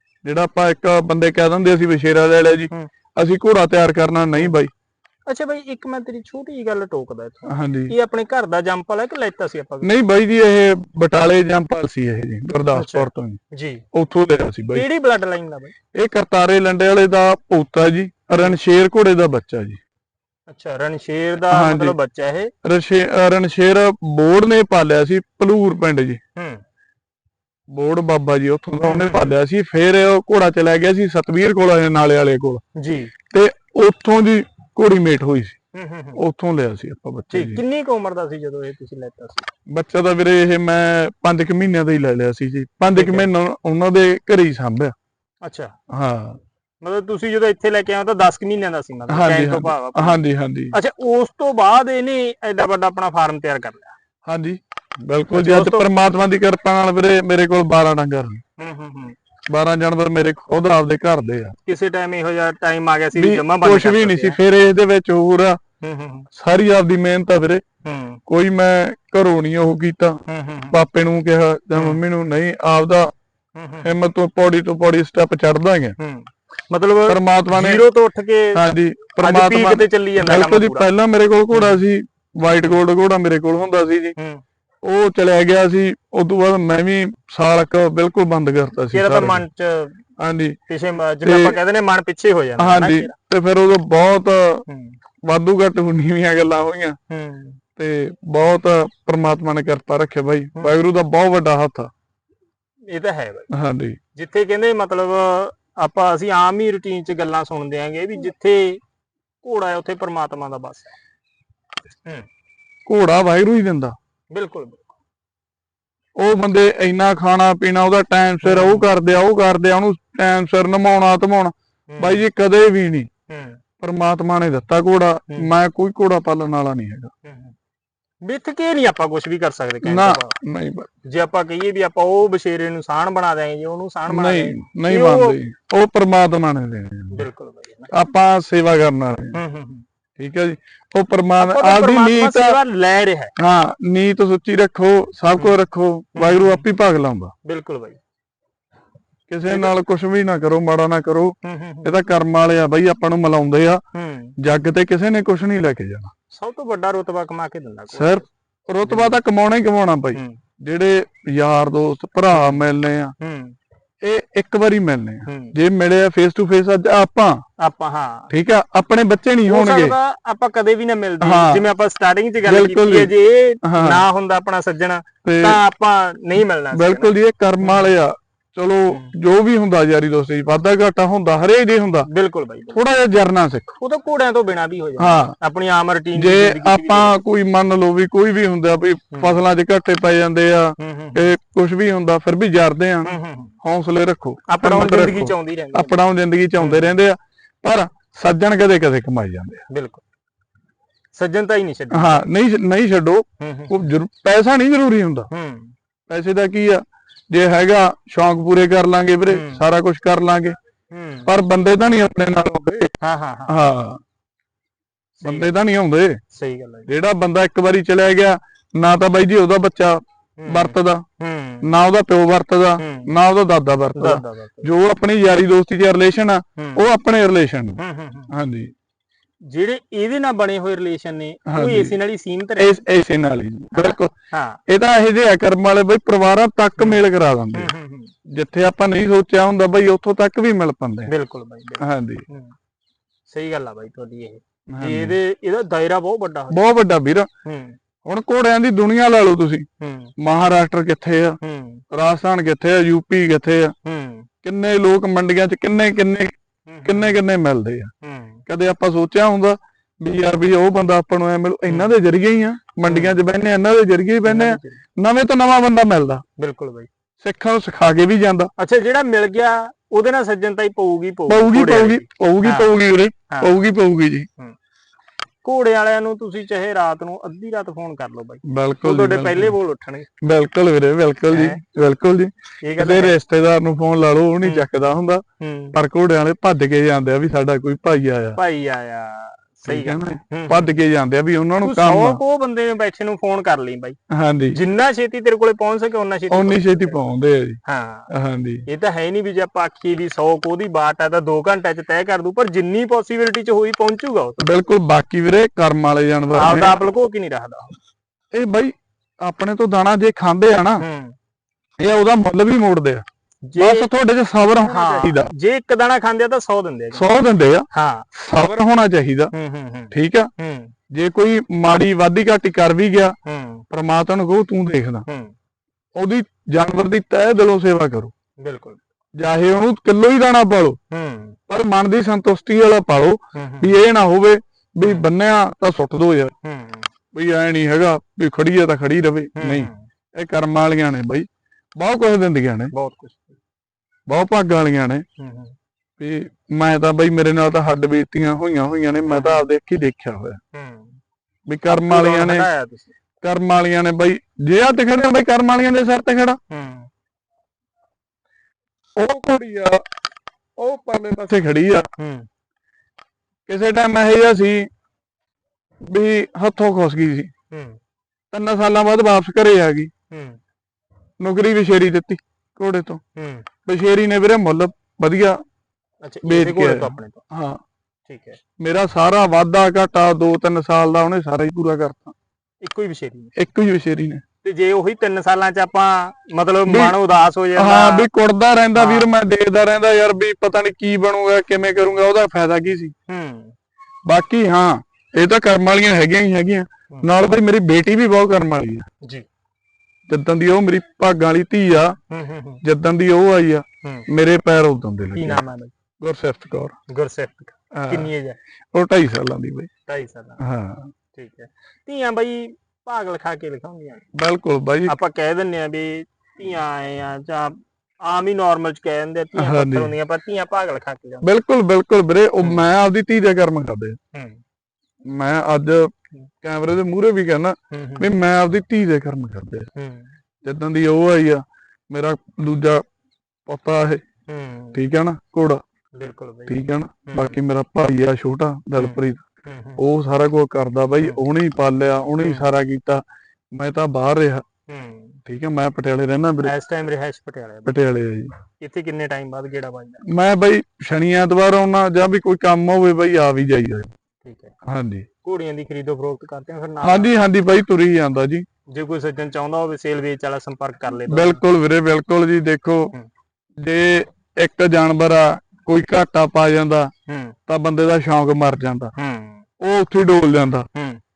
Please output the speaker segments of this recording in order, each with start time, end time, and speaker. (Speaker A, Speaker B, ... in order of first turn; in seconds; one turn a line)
Speaker A: 0.2-4.7
Speaker B: 5.3-9.9
Speaker A: 7.5-8.0
Speaker A: 9.8-13.4
Speaker B: 12.7-13.8
Speaker A: 13.9-14.9
Speaker B: 14.7-15.7
Speaker A: 15.9-19.8
Speaker B: 20.5-22.5
Speaker A: 21.5-22.0
Speaker A: 22.6-26.2
Speaker B: 26.4-26.6
Speaker A: 27.7-32.6
Speaker B: 28.8-29.3
Speaker B: 32.8-33.1
Speaker A: 33.3-35.6
Speaker B: 35.7-36.2
Speaker A: 36.1-37.6
Speaker B: 37.3-39.5
Speaker A: 39.7-44.9
Speaker B: 42.9-43.2
Speaker B: 45.4-45.7
Speaker A: 45.9-46.4
Speaker B: 46.8-50.2
Speaker A: 49.1-50.8
Speaker B: 50.7-53.9
Speaker A: 54.2-58.4
Speaker B: 55.3-55.8
Speaker B: 58.6-59.1
Speaker A: 59.5-61.5
Speaker B: 61.6-64.4
Speaker A: 63.1-65.6
Speaker B: 65.8-66.3
Speaker A: 66.3-67.6
Speaker B: 67.8-68.2
Speaker A: 68.3-70.2
Speaker B: 70.3-70.8
Speaker A: 70.7-73.1
Speaker B: 73.5-73.8
Speaker A: 73.8-76.0
Speaker B: 76.0-78.6
Speaker A: 77.1-77.8
Speaker A: 78.5-84.1
Speaker B: 79.2-80.9
Speaker B: 84.2-84.4
Speaker A: 84.8-89.4
Speaker B: 88.9-90.0
Speaker A: 90.2-90.6
Speaker B: 90.7-93.1
Speaker A: 91.2-91.6
Speaker A: 92.6-94.6
Speaker B: 94.7-95.0
Speaker A: 95.3-97.0
Speaker B: 97.1-97.6
Speaker A: 97.8-101.9
Speaker B: 102.9-103.5
Speaker A: 103.5-104.0
Speaker B: 104.1-108.8
Speaker B: 109.4-110.9
Speaker A: 112.8-113.9
Speaker B: 114.3-114.9
Speaker A: 116.2-123.1
Speaker B: 118.4-118.8
Speaker B: 121.9-122.2
Speaker B: 123.3-123.6
Speaker A: 123.8-127.1
Speaker B: 127.2-127.5
Speaker B: 128.2-130.3
Speaker A: 129.8-130.9
Speaker B: 131.1-135.3
Speaker A: 134.1-137.3
Speaker B: 137.1-137.9
Speaker A: 137.9-139.4
Speaker B: 139.3-139.8
Speaker A: 140.2-142.6
Speaker B: 141.4-143.3
Speaker A: 143.4-147.3
Speaker B: 146.2-146.6
Speaker B: 147.4-148.0
Speaker A: 149.3-153.8
Speaker B: 151.4-151.9
Speaker B: 153.9-154.3
Speaker A: 154.4-156.1
Speaker B: 156.3-158.2
Speaker A: 157.9-163.1
Speaker B: 162.3-162.6
Speaker B: 163.2-163.5
Speaker A: 164.0-167.4
Speaker B: 165.2-165.5
Speaker B: 167.6-168.3
Speaker A: 168.3-169.9
Speaker B: 169.5-177.1
Speaker A: 171.2-171.7
Speaker A: 172.4-174.1
Speaker A: 175.2-175.6
Speaker A: 176.7-182.1
Speaker B: 182.1-182.8
Speaker A: 182.7-183.7
Speaker B: 183.8-187.1
Speaker A: 185.0-185.3
Speaker A: 186.1-199.6
Speaker B: 190.8-191.2
Speaker B: 193.1-193.5
Speaker B: 194.5-195.9
Speaker B: 196.6-196.9
Speaker B: 199.7-200.0
Speaker B: 201.1-202.2
Speaker A: 201.9-205.3
Speaker B: 203.4-203.7
Speaker B: 205.3-205.7
Speaker A: 206.1-210.5
Speaker B: 209.3-209.6
Speaker B: 210.9-211.2
Speaker A: 211.2-212.9
Speaker B: 213.0-213.5
Speaker A: 213.5-214.0
Speaker B: 215.2-215.5
Speaker A: 215.2-216.2
Speaker B: 216.3-216.9
Speaker A: 216.9-221.0
Speaker B: 220.4-221.7
Speaker A: 221.6-228.7
Speaker B: 222.8-223.1
Speaker B: 223.9-224.6
Speaker B: 227.8-228.3
Speaker B: 229.5-232.8
Speaker A: 231.5-232.0
Speaker A: 232.6-234.1
Speaker B: 233.8-234.6
Speaker A: 234.7-237.7
Speaker B: 237.5-238.1
Speaker A: 238.3-241.1
Speaker B: 241.1-242.5
Speaker A: 241.8-242.2
Speaker B: 243.3-246.6
Speaker A: 244.7-245.2
Speaker A: 246.5-247.3
Speaker B: 247.4-247.8
Speaker A: 248.1-249.7
Speaker B: 249.8-250.1
Speaker A: 250.2-251.4
Speaker B: 251.4-251.8
Speaker A: 251.9-253.7
Speaker B: 253.8-254.2
Speaker A: 254.4-256.3
Speaker B: 256.7-257.1
Speaker A: 256.8-257.9
Speaker B: 258.0-258.4
Speaker A: 258.5-266.2
Speaker B: 262.9-263.1
Speaker B: 264.2-264.8
Speaker B: 266.4-266.9
Speaker A: 267.2-268.5
Speaker B: 268.6-272.7
Speaker A: 271.3-274.3
Speaker B: 275.4-280.1
Speaker A: 278.4-279.6
Speaker A: 280.2-285.2
Speaker B: 281.3-281.6
Speaker B: 282.7-283.1
Speaker B: 285.4-285.7
Speaker A: 285.7-288.4
Speaker B: 288.4-290.6
Speaker A: 289.6-292.2
Speaker B: 291.6-294.0
Speaker A: 294.1-294.6
Speaker B: 294.5-296.9
Speaker A: 296.3-297.6
Speaker B: 297.6-298.1
Speaker A: 298.1-298.6
Speaker B: 298.7-304.4
Speaker A: 304.4-306.8
Speaker B: 306.4-307.8
Speaker A: 308.3-310.8
Speaker B: 310.8-311.1
Speaker A: 311.8-313.0
Speaker B: 313.5-313.9
Speaker A: 313.6-315.3
Speaker B: 314.7-317.0
Speaker A: 316.9-319.3
Speaker B: 317.7-318.1
Speaker B: 319.3-320.7
Speaker A: 319.9-320.3
Speaker A: 320.9-323.1
Speaker B: 323.2-323.6
Speaker A: 323.7-325.1
Speaker B: 325.1-325.3
Speaker A: 325.9-328.1
Speaker B: 328.4-328.8
Speaker A: 329.2-330.8
Speaker B: 330.9-331.4
Speaker A: 331.5-336.3
Speaker B: 333.3-333.7
Speaker B: 336.4-336.9
Speaker A: 337.1-341.2
Speaker B: 339.4-339.8
Speaker A: 341.8-342.7
Speaker B: 342.7-343.3
Speaker A: 344.1-345.0
Speaker B: 345.2-345.5
Speaker A: 346.0-350.4
Speaker B: 349.1-349.4
Speaker B: 350.5-350.9
Speaker A: 351.5-352.5
Speaker B: 351.8-352.9
Speaker A: 353.2-356.4
Speaker B: 356.5-356.9
Speaker A: 359.0-359.8
Speaker A: 360.6-361.9
Speaker B: 362.0-362.3
Speaker A: 363.5-364.7
Speaker A: 365.9-367.3
Speaker B: 367.5-367.8
Speaker A: 368.3-369.9
Speaker B: 370.1-370.4
Speaker A: 371.2-373.0
Speaker B: 373.1-373.4
Speaker A: 373.6-375.4
Speaker B: 376.0-377.2
Speaker A: 376.2-377.6
Speaker B: 378.1-378.4
Speaker A: 378.6-382.1
Speaker B: 382.6-383.3
Speaker A: 383.4-384.2
Speaker B: 384.4-388.1
Speaker A: 386.6-387.0
Speaker A: 387.6-392.9
Speaker B: 388.8-389.1
Speaker B: 393.1-393.5
Speaker A: 394.1-398.8
Speaker A: 400.1-402.0
Speaker B: 402.1-402.6
Speaker A: 402.6-405.4
Speaker B: 405.1-405.7
Speaker A: 406.0-406.7
Speaker B: 406.9-408.4
Speaker A: 407.7-408.1
Speaker A: 408.7-409.7
Speaker B: 409.9-410.4
Speaker A: 410.4-410.9
Speaker B: 411.1-414.0
Speaker A: 414.1-414.9
Speaker B: 414.9-421.2
Speaker A: 419.3-419.9
Speaker A: 421.2-424.0
Speaker B: 424.1-424.4
Speaker A: 425.1-425.9
Speaker A: 426.4-429.7
Speaker B: 427.7-428.0
Speaker B: 429.7-430.1
Speaker A: 430.4-432.8
Speaker A: 433.5-434.0
Speaker B: 434.3-434.8
Speaker A: 434.7-435.6
Speaker B: 435.9-436.5
Speaker A: 436.5-439.2
Speaker B: 437.1-437.3
Speaker B: 438.8-439.8
Speaker A: 439.8-443.0
Speaker B: 442.2-442.5
Speaker A: 443.5-444.4
Speaker B: 444.7-445.1
Speaker A: 445.2-446.5
Speaker B: 446.4-447.7
Speaker A: 447.6-448.3
Speaker B: 448.6-450.0
Speaker A: 450.0-453.9
Speaker B: 454.2-454.5
Speaker A: 454.7-455.1
Speaker B: 455.2-457.1
Speaker A: 456.8-458.4
Speaker B: 458.7-461.4
Speaker A: 460.9-462.9
Speaker A: 463.6-466.9
Speaker B: 467.1-467.4
Speaker A: 467.5-468.9
Speaker B: 468.9-469.4
Speaker A: 469.6-470.7
Speaker B: 470.7-471.0